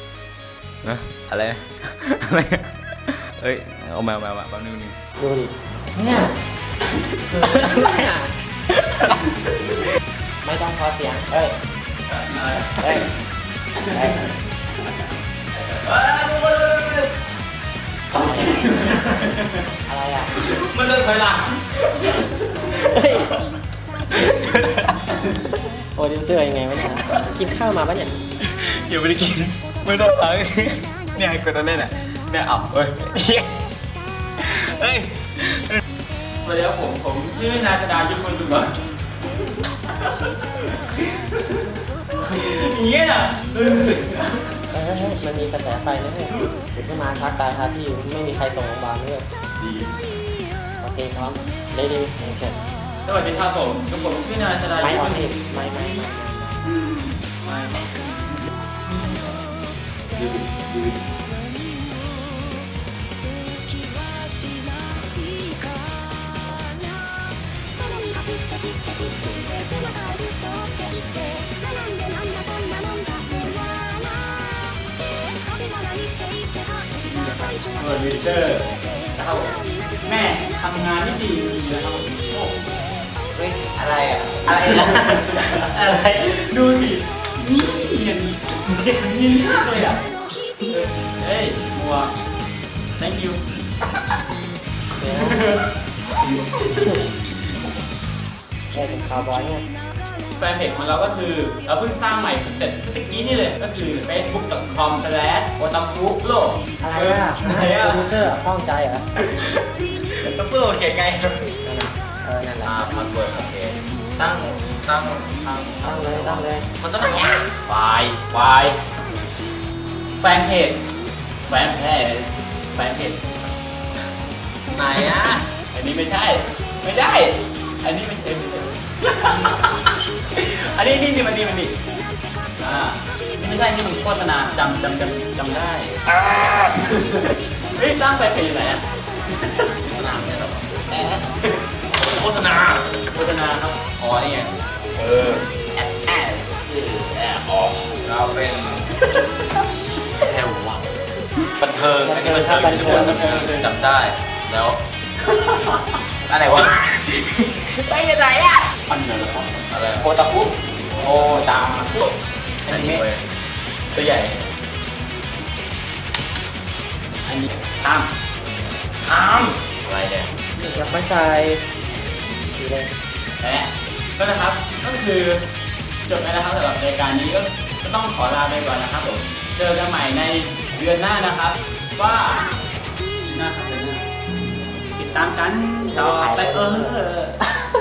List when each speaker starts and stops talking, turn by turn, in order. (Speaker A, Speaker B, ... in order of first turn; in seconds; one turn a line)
Speaker A: 0.8-5.0
Speaker B: 5.2-6.3
Speaker B: 7.3-8.3
Speaker A: 7.4-7.9
Speaker A: 8.7-9.2
Speaker B: 10.4-11.6
Speaker A: 12.3-13.0
Speaker B: 12.8-13.1
Speaker B: 13.9-14.2
Speaker A: 15.5-17.1
Speaker B: 18.1-18.8
Speaker A: 18.2-19.3
Speaker B: 19.9-20.4
Speaker A: 20.4-23.4
Speaker B: 22.8-23.3
Speaker A: 24.1-25.0
Speaker B: 25.9-28.2
Speaker A: 28.4-33.5
Speaker A: 34.4-35.8
Speaker C: 36.4-38.8
Speaker C: 41.0-41.4
Speaker C: 42.2-44.4
Speaker B: 44.7-49.3
Speaker A: 49.6-49.9
Speaker B: 50.8-52.6
Speaker C: 53.0-55.9
Speaker B: 54.8-56.7
Speaker C: 57.4-58.0
Speaker C: 58.9-59.2
Speaker A: 60.1-60.9
Speaker C: 73.2-73.6
Speaker C: 77.0-82.6
Speaker A: 83.3-86.4
Speaker C: 84.5-90.0
Speaker C: 90.7-92.1
Speaker C: 93.0-93.4
Speaker B: 95.0-95.5
Speaker C: 95.1-95.7
Speaker B: 98.7-99.7
Speaker C: 100.3-106.6
Speaker B: 106.8-109.0
Speaker A: 106.9-108.2
Speaker A: 109.2-111.5
Speaker B: 111.6-112.8
Speaker A: 112.6-117.5
Speaker B: 115.8-116.7
Speaker C: 117.6-118.8
Speaker C: 120.2-120.8
Speaker C: 121.5-123.5
Speaker A: 124.7-125.5
Speaker C: 124.9-131.8
Speaker C: 132.6-136.0
Speaker C: 136.7-138.9
Speaker A: 139.9-141.2
Speaker C: 140.9-141.4
Speaker A: 142.0-142.9
Speaker C: 143.1-143.8
Speaker A: 144.0-144.5
Speaker C: 145.0-145.4
Speaker A: 145.2-148.9
Speaker A: 150.1-150.9
Speaker A: 151.5-154.8
Speaker B: 152.0-153.7
Speaker C: 152.8-153.5
Speaker C: 155.4-155.8
Speaker A: 156.3-158.7
Speaker C: 158.9-162.0
Speaker A: 159.7-163.2
Speaker C: 162.7-163.0
Speaker A: 163.9-164.3
Speaker C: 163.9-164.4
Speaker C: 167.2-168.1
Speaker C: 169.1-169.6
Speaker A: 169.8-170.3
Speaker B: 170.6-171.6
Speaker B: 172.4-172.9
Speaker C: 173.4-175.4
Speaker C: 176.1-182.5
Speaker C: 183.2-184.0
Speaker C: 184.9-187.3
Speaker B: 185.9-187.0